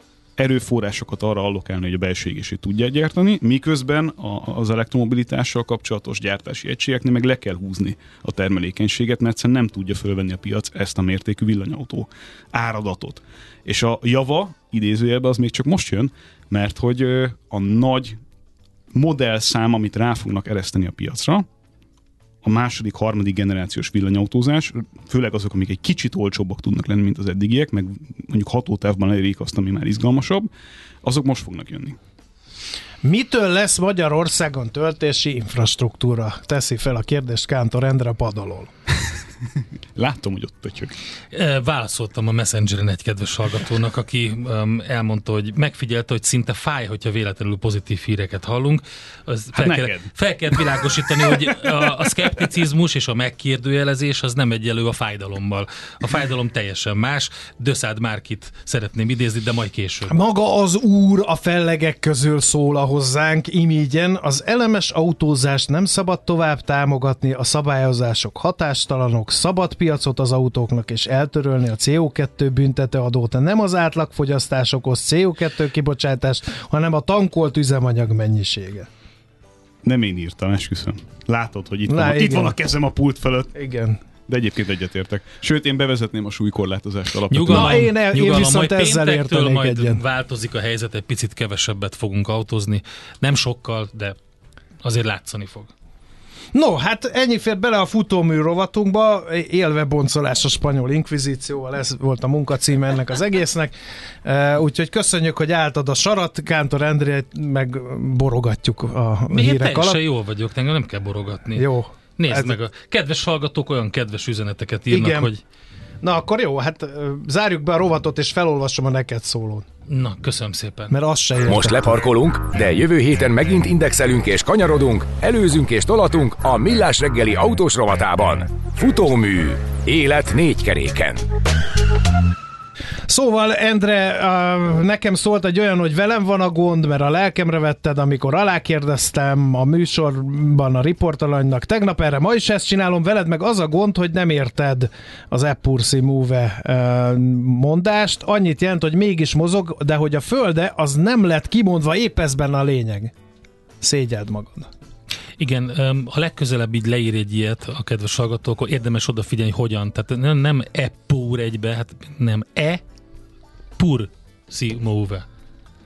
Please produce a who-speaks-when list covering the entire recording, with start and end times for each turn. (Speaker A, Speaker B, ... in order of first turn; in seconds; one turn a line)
Speaker A: 0.4-18.2
Speaker A: 18.9-21.4
Speaker A: 22.4-30.5
Speaker A: 31.0-32.0
Speaker B: 33.0-38.7
Speaker A: 40.0-41.0
Speaker C: 41.3-60.1
Speaker A: 49.5-52.1
Speaker B: 60.1-78.9
Speaker A: 79.8-83.5
Speaker B: 81.9-82.5
Speaker B: 83.5-84.0
Speaker A: 84.3-87.9
Speaker C: 87.3-94.2
Speaker B: 87.5-90.0
Speaker C: 94.8-95.7
Speaker B: 96.5-103.7
Speaker B: 104.2-110.0
Speaker C: 109.3-115.4
Speaker B: 111.6-112.5
Speaker B: 114.9-115.3
Speaker B: 116.0-119.7
Speaker C: 119.9-120.9
Speaker B: 120.9-121.9
Speaker D: 121.4-131.3
Speaker B: 133.1-153.1
Speaker B: 153.8-154.7
Speaker C: 155.4-162.8
Speaker C: 163.8-165.2